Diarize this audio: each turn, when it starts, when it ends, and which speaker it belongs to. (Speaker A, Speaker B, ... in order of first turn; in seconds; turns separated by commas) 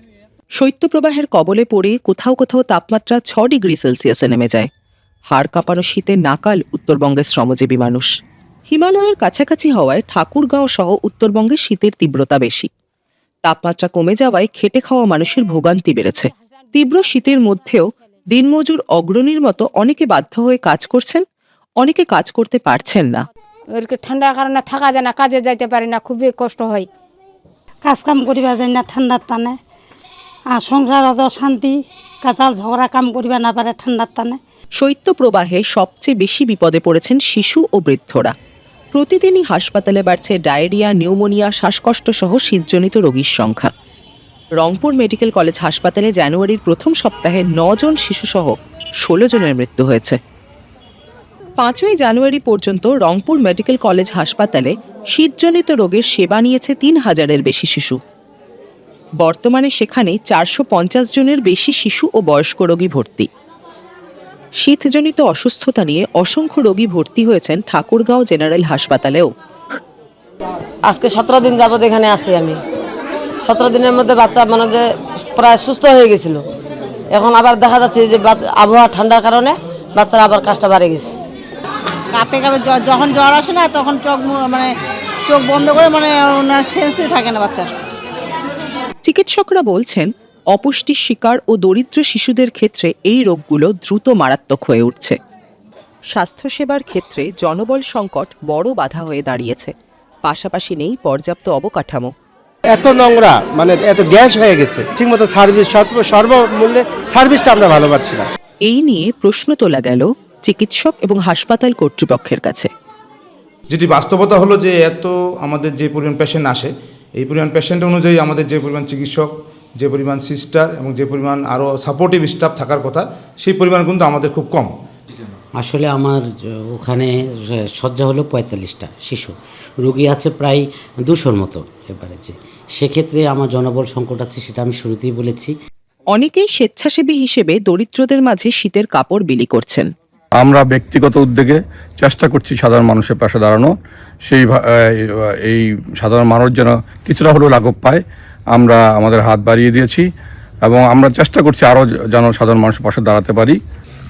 Speaker A: 0.6-4.7, Speaker A: 5.3-8.1, Speaker A: 8.7-12.7, Speaker A: 13.4-21.2, Speaker A: 21.8-23.2, Speaker B: 23.7-26.9, Speaker C: 27.9-29.6, Speaker C: 30.6-34.4, Speaker A: 34.8-38.3, Speaker A: 38.9-43.7, Speaker A: 44.6-50.2, Speaker A: 51.6-58.0, Speaker A: 59.2-63.3, Speaker A: 64.6-69.3, Speaker D: 70.9-72.6, Speaker D: 73.4-74.8, Speaker D: 75.3-76.4, Speaker D: 77.1-81.1, Speaker E: 82.1-84.7, Speaker E: 85.3-87.7, Speaker A: 89.0-95.2, Speaker A: 96.1-99.7, Speaker A: 100.2-102.1, Speaker F: 102.7-108.3, Speaker A: 108.7-112.7, Speaker G: 113.7-124.7, Speaker H: 125.6-135.5, Speaker A: 136.1-139.9, Speaker I: 140.4-143.7, Speaker I: 145.5-148.0, Speaker I: 148.6-150.0, Speaker I: 150.7-153.6